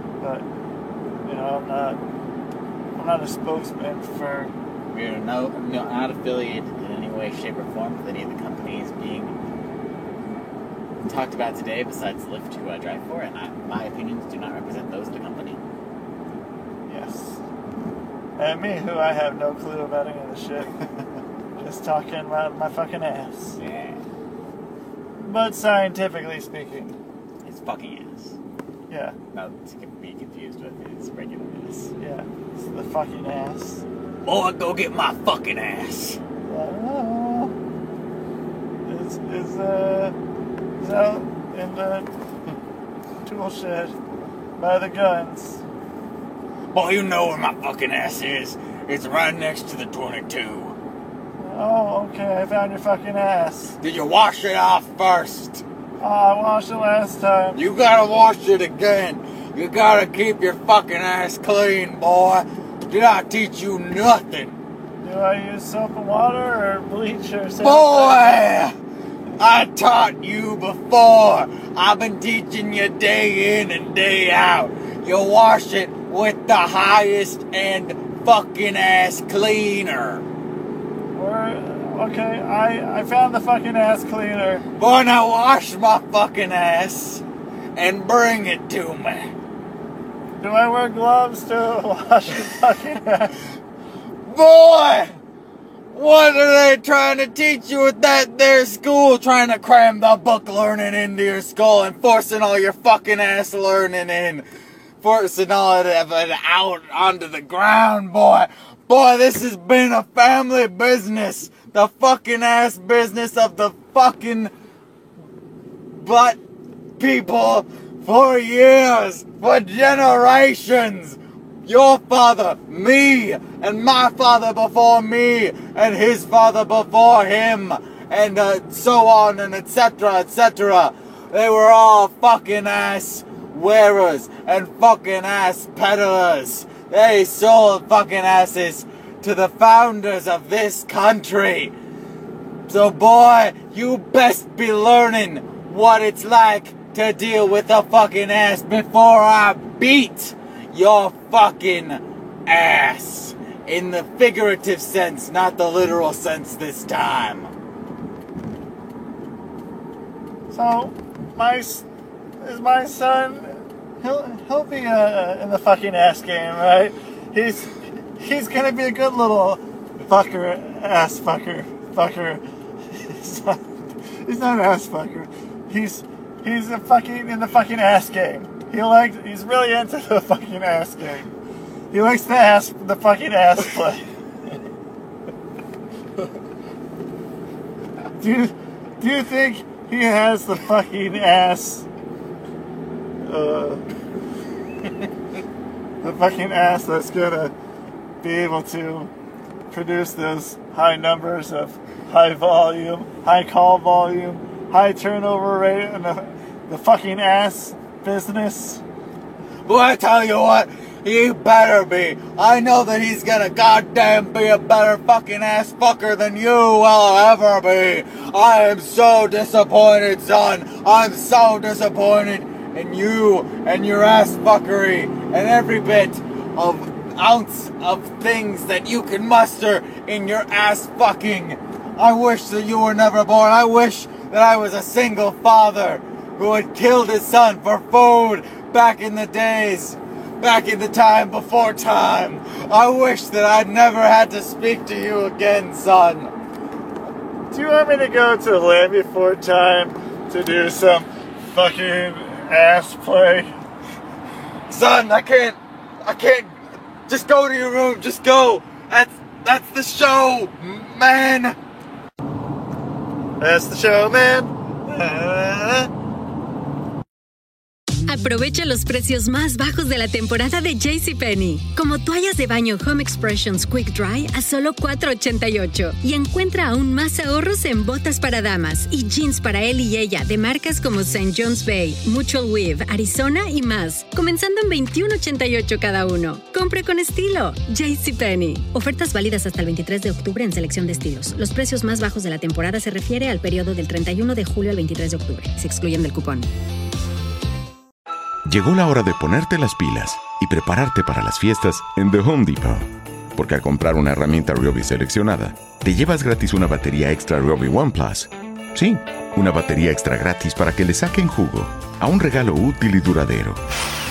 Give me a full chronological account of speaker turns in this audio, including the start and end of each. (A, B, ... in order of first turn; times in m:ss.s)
0:00.2-0:00.5 A
0:01.2-0:02.0 A
0:03.0-0:04.5 A
0:04.9-0:09.3 B
0:11.0-0:15.6 B
0:16.9-0:17.4 A
0:18.4-0:20.8 A
0:21.6-0:23.6 A
0:23.6-0:24.0 B
0:25.2-0:27.0 A
0:27.4-0:28.4 B
0:28.9-0:29.2 A
0:29.3-0:31.9 B
0:32.0-0:33.8 A
0:34.2-0:36.2 B
0:36.4-0:37.5 A
0:38.8-0:40.2 A
0:40.8-0:42.1 A
0:43.2-0:44.0 A
0:44.6-0:45.6 A
0:46.7-0:50.8 B
0:51.4-0:53.8 A
0:53.8-0:55.6 B
0:56.0-0:57.6 A
0:57.5-1:04.6 B
1:05.0-1:08.5 A
1:07.6-1:08.8 B
1:09.4-1:20.2 B
1:21.1-1:24.6 A
1:24.8-1:27.2 B
1:27.8-1:29.3 B
1:30.4-1:33.3 A
1:34.3-1:35.2 B
1:35.9-1:44.4 B
1:45.0-1:54.5 B
1:56.0-1:56.4 B
1:57.0-2:21.7 B
2:22.7-2:37.5 B
2:40.5-2:41.8 A
2:42.4-2:52.4 A
2:53.0-3:01.3 A
3:01.9-3:04.1 A
3:08.2-3:11.9 A
3:13.2-3:13.8 A
3:16.0-3:17.5 A
3:18.2-3:19.1 A
3:19.7-3:28.8 A
3:29.7-4:06.3 B
4:07.5-4:13.5 A
4:14.7-4:16.5 B
4:17.1-4:21.6 B
4:23.4-4:24.5 A
4:25.0-4:25.6 B
4:28.1-4:56.5 C
4:58.5-5:13.6 D